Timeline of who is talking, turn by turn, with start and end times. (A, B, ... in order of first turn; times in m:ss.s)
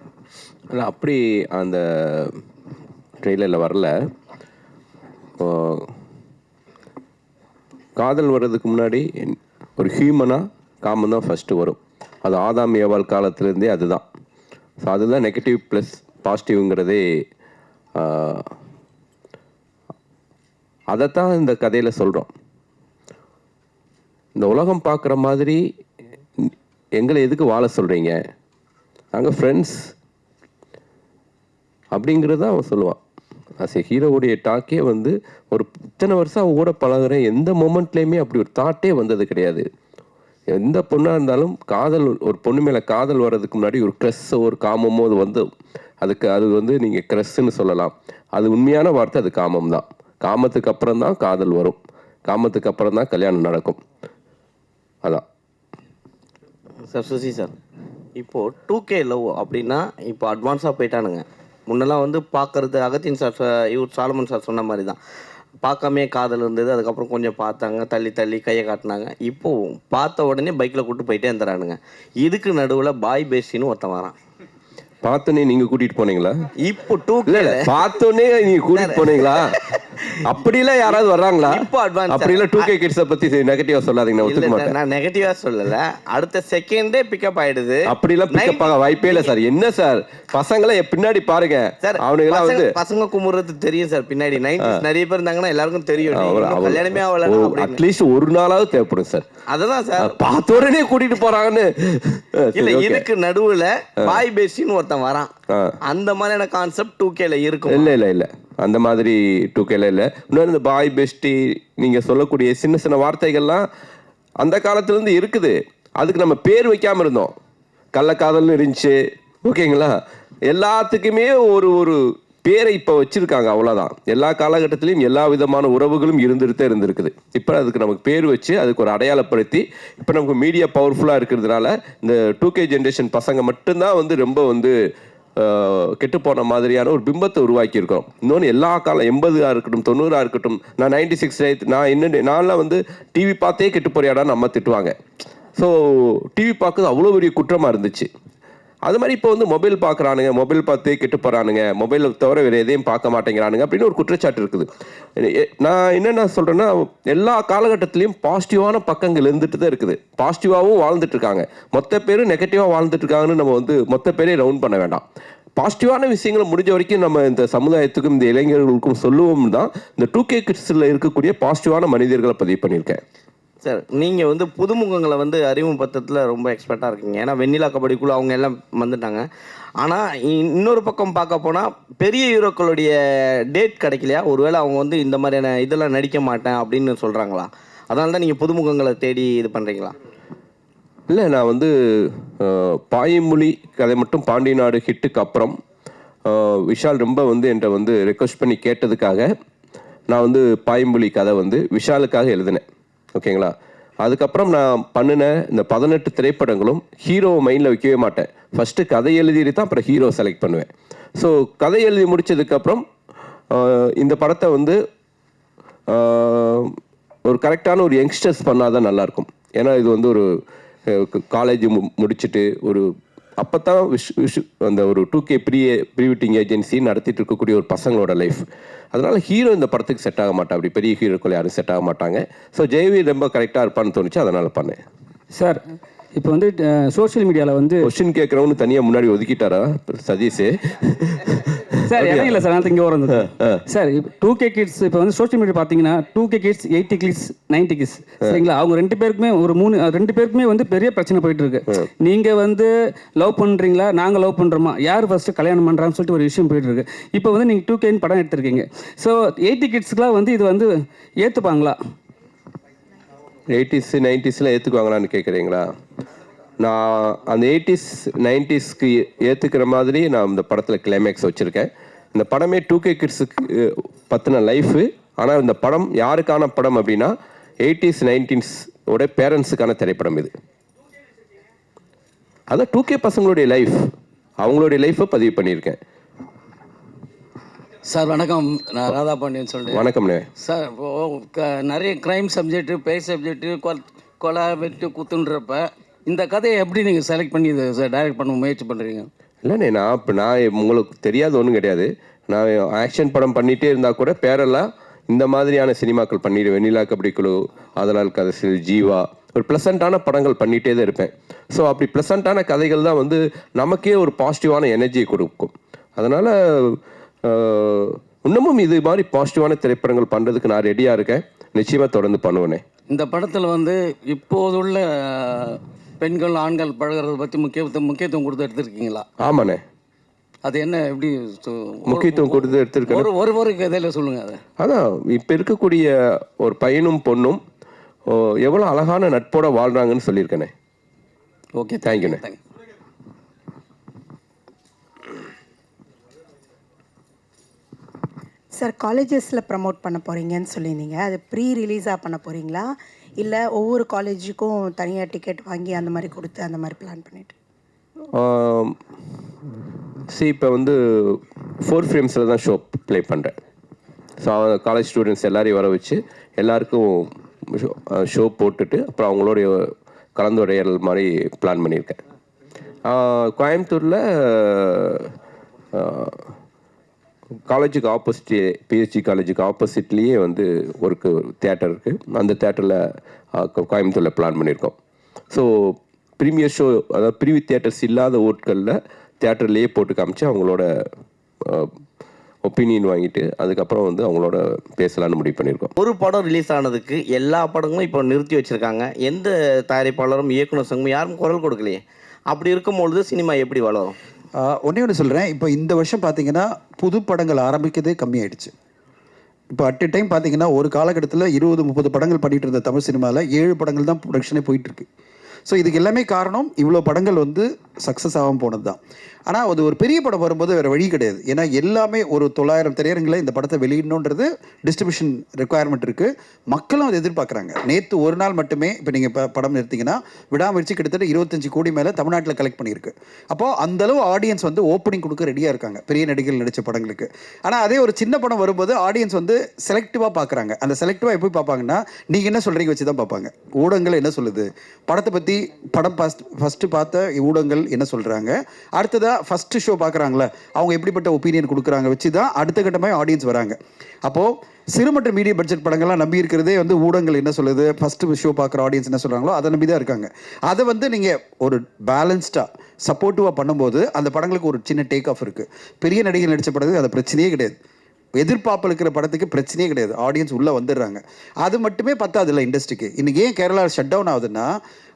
0:00.7-0:02.4 A
0:03.2-0:03.9 A
0:05.4-0:05.9 A
0:08.0-0:14.0 A
0:14.8-0:17.0 A
0:18.0-0:18.4 A
0:20.9-0:22.3 A
0:24.4-0:25.6 A
0:26.4-0:28.2 A
0:29.1-0:29.8 A
0:31.9-0:33.0 A
0:33.6-0:39.6 A
0:40.5-0:45.4 A
0:46.0-0:51.8 A
0:52.3-0:53.8 A
0:56.9-0:57.5 B
0:58.2-1:05.0 B
1:05.6-1:14.2 B
1:15.0-1:16.4 A
1:16.6-1:17.8 B
1:17.3-1:19.5 A
1:18.7-1:20.0 B
1:20.2-1:24.7 A
1:20.8-1:22.7 B
1:24.2-1:29.3 B
1:27.9-1:32.7 A
1:31.8-1:37.8 B
1:36.1-1:39.3 A
1:39.5-1:40.2 B
1:40.0-1:43.1 A
1:42.6-1:45.3 B
1:45.8-1:48.0 B
1:47.7-1:53.6 A
1:54.4-1:57.3 A
1:58.0-2:00.0 A
2:00.5-2:14.8 A
2:15.4-2:24.9 A
2:25.6-2:28.1 A
2:28.9-2:45.0 A
2:45.6-2:53.0 A
2:53.6-2:59.3 B
2:59.8-3:10.0 B
3:11.1-3:15.6 A
3:16.3-3:19.3 A
3:20.1-3:22.6 A
3:23.2-3:32.8 A
3:33.5-3:34.8 A
3:35.9-3:36.7 A
3:37.3-3:40.3 A
3:40.9-3:42.9 A
3:43.4-3:54.8 A
3:55.4-3:55.6 C
3:56.2-3:57.9 C
3:57.8-4:02.5 A
4:01.9-4:21.8 C
4:03.2-4:03.6 A
4:23.5-4:25.7 A
4:26.6-4:40.3 A
4:42.5-4:43.8 A
4:44.4-4:45.8 A
4:47.8-4:49.8 D
4:49.7-4:50.3 A
4:50.4-4:59.1 D
4:59.4-5:22.6 A
5:22.9-5:29.0 D
5:29.2-5:29.6 A
5:30.4-5:34.4 D
5:31.9-5:33.1 A
5:34.6-5:37.4 A
5:38.1-5:40.5 A
5:41.6-5:42.4 D
5:41.8-5:42.2 A
5:48.6-5:57.4 E
5:58.2-5:58.8 A
6:00.1-6:03.3 A
6:04.2-6:09.6 A
6:10.2-6:12.0 A
6:12.9-6:15.1 A
6:15.8-6:16.2 A
6:17.5-6:22.8 A
6:23.4-6:24.7 A
6:25.3-6:30.7 A
6:32.4-6:35.7 A
6:35.8-6:44.0 B
6:44.4-6:48.5 F
6:49.5-6:54.9 F
6:55.5-7:47.6 F
7:48.2-7:54.5 F